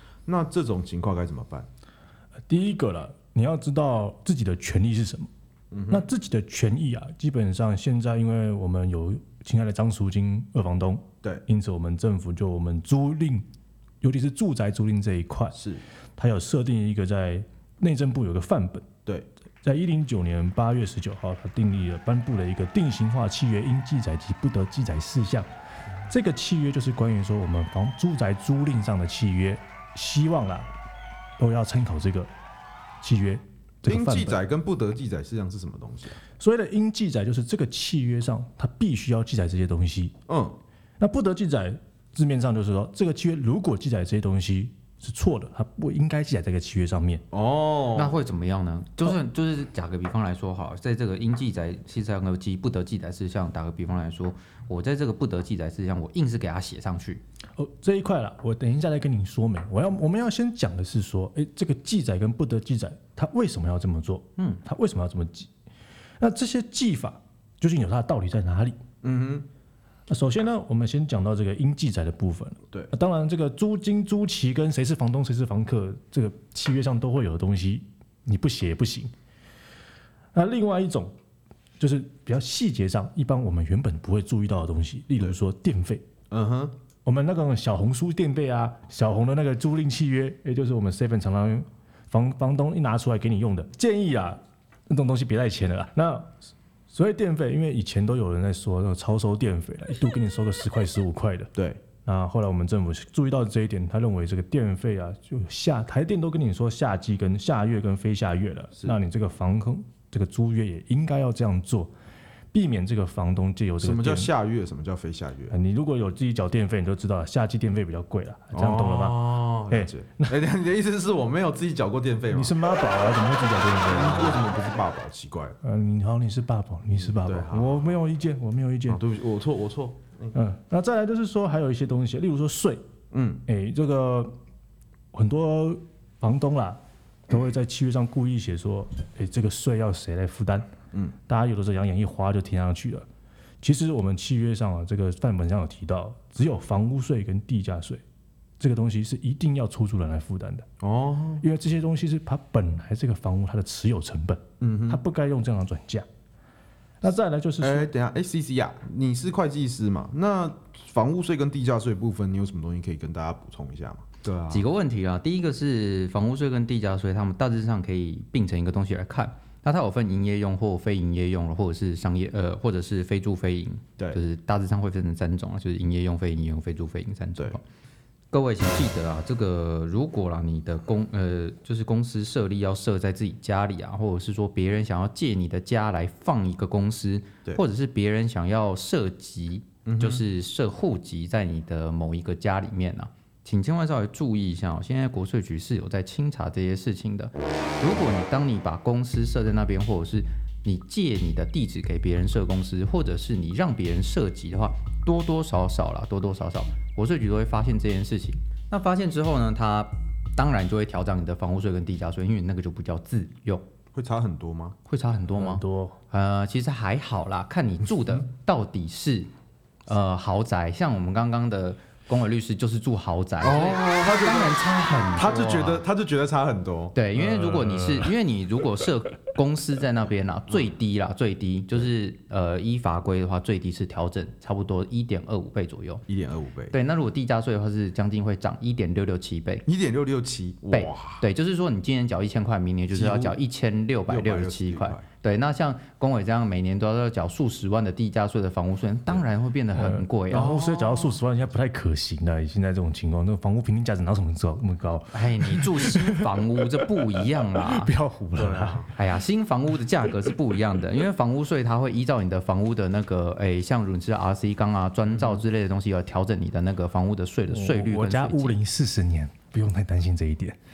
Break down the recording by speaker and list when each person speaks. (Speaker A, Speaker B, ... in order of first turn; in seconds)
Speaker A: 0.2-1.7, 5.7-6.1, 15.5-15.8, 33.8-36.2, 40.3-40.6, 47.3-48.2, 69.0-69.5, 86.3-86.7, 101.5-101.8, 113.8-115.5, 118.5-122.5, 123.9-125.6, 127.0-128.0, 128.9-130.3, 133.1-133.4, 150.8-151.4, 154.6-155.0, 157.6-164.7, 189.8-190.2, 213.9-214.8, 223.4-224.6, 225.1-227.0, 236.1-236.7, 239.7-241.2, 242.9-243.4, 244.1-245.1, 250.3-251.2, 258.4-258.9, 265.1-265.4
Speaker B: 2.5-5.3, 5.9-13.4, 14.0-15.6, 16.2-18.9, 19.6-25.5, 26.1-30.7, 31.4-32.3, 33.0-34.4, 36.4-40.1, 41.0-47.2, 57.6-65.5, 66.2-68.8, 70.1-79.1, 80.3-81.1, 81.8-86.0, 87.0-96.3, 96.9-101.5, 102.0-111.9, 112.5-114.3, 115.5-120.3, 122.3-124.5, 125.6-129.0, 130.3-132.8, 133.5-134.3, 135.1-140.7, 141.3-143.1, 143.6-148.0, 148.6-150.7, 151.4-156.1, 157.0-157.9, 215.3-216.0, 227.2-228.1, 249.7-256.5, 257.2-258.8, 267.5-270.6
Speaker C: 47.9-57.2, 164.5-177.6, 178.3-213.6, 214.9-219.3, 219.9-225.8, 226.9-236.0, 236.7-239.7, 240.7-250.5, 255.1-257.9, 258.9-268.6